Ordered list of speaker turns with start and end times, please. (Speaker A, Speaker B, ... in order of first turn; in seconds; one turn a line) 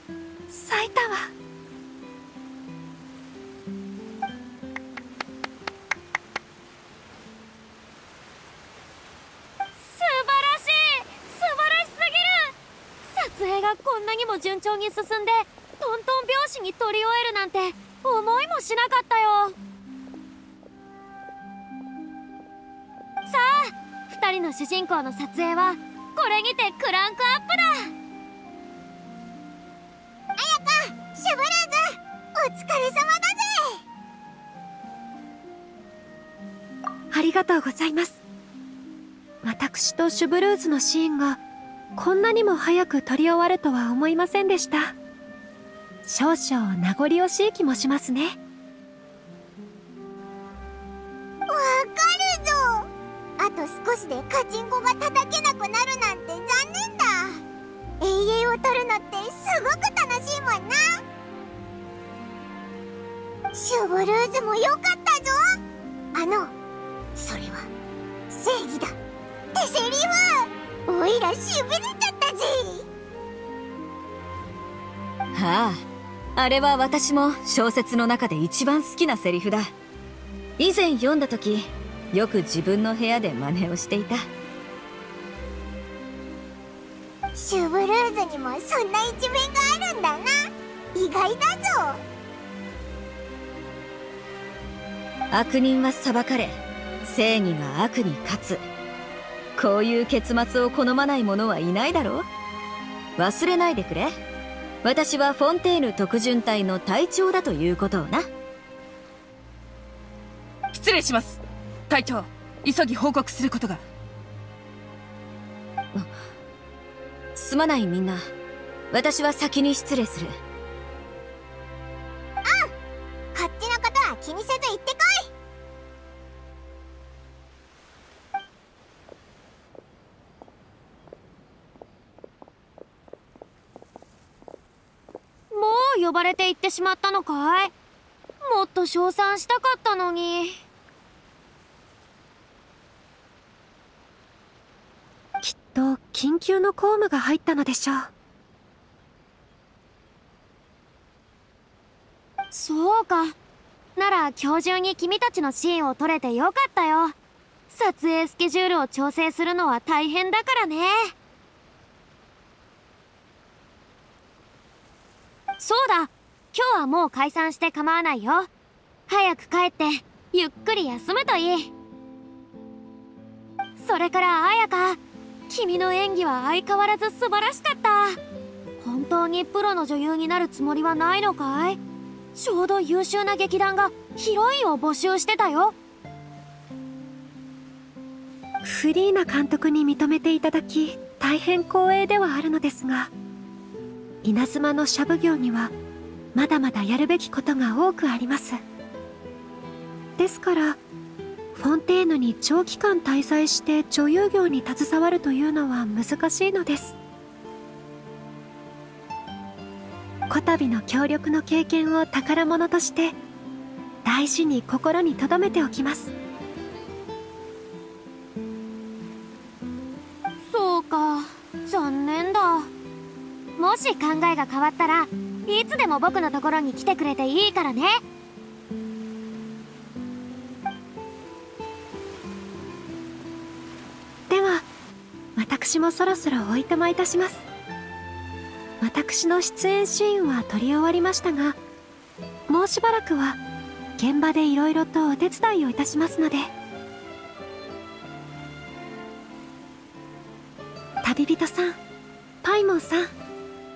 Speaker A: 0.5-1.3
Speaker B: 9.8-12.5
Speaker B: 13.1-19.6
Speaker B: 23.2-27.9
Speaker C: 30.4-33.8
Speaker A: 37.1-38.2
Speaker A: 39.4-41.4
Speaker A: 42.0-44.9
Speaker A: 46.0-48.4
Speaker C: 51.5-52.9
Speaker C: 53.4-57.4
Speaker C: 58.0-61.0
Speaker C: 63.5-65.4
Speaker C: 66.1-66.5
Speaker C: 67.2-67.7
Speaker C: 68.3-69.0
Speaker C: 69.5-72.8
Speaker D: 75.3-75.8
Speaker D: 76.3-79.7
Speaker D: 80.6-84.2
Speaker C: 87.3-92.0
Speaker D: 95.3-98.6
Speaker D: 99.6-102.2
Speaker D: 103.2-104.1
Speaker D: 104.8-108.3
Speaker E: 110.7-113.8
Speaker D: 117.3-118.2
Speaker D: 118.9-120.3
Speaker C: 122.5-122.7
Speaker C: 123.3-125.3
Speaker B: 135.5-137.7
Speaker B: 138.4-140.6
Speaker A: 145.4-148.1
Speaker B: 152.5-153.3
Speaker B: 153.9-157.1
Speaker B: 157.7-161.1
Speaker B: 165.6-168.5
Speaker B: 169.1-171.7
Speaker B: 173.8-178.2
Speaker B: 178.8-181.8
Speaker B: 182.3-185.7
Speaker A: 188.6-193.1
Speaker A: 194.2-195.7
Speaker A: 196.3-198.6
Speaker A: 200.2-200.8
Speaker A: 201.5-206.9
Speaker A: 210.3-213.2
Speaker A: 214.0-216.1
Speaker B: 220.4-222.7
Speaker B: 223.6-228.0
Speaker A: 234.3-234.7
Speaker A: 235.3-237.4
Speaker A: 238.8-241.6
Speaker A: 242.5-243.4
Speaker A: 244.0-246.5
Speaker A: 251.0-251.8
Speaker A: 252.4-253.1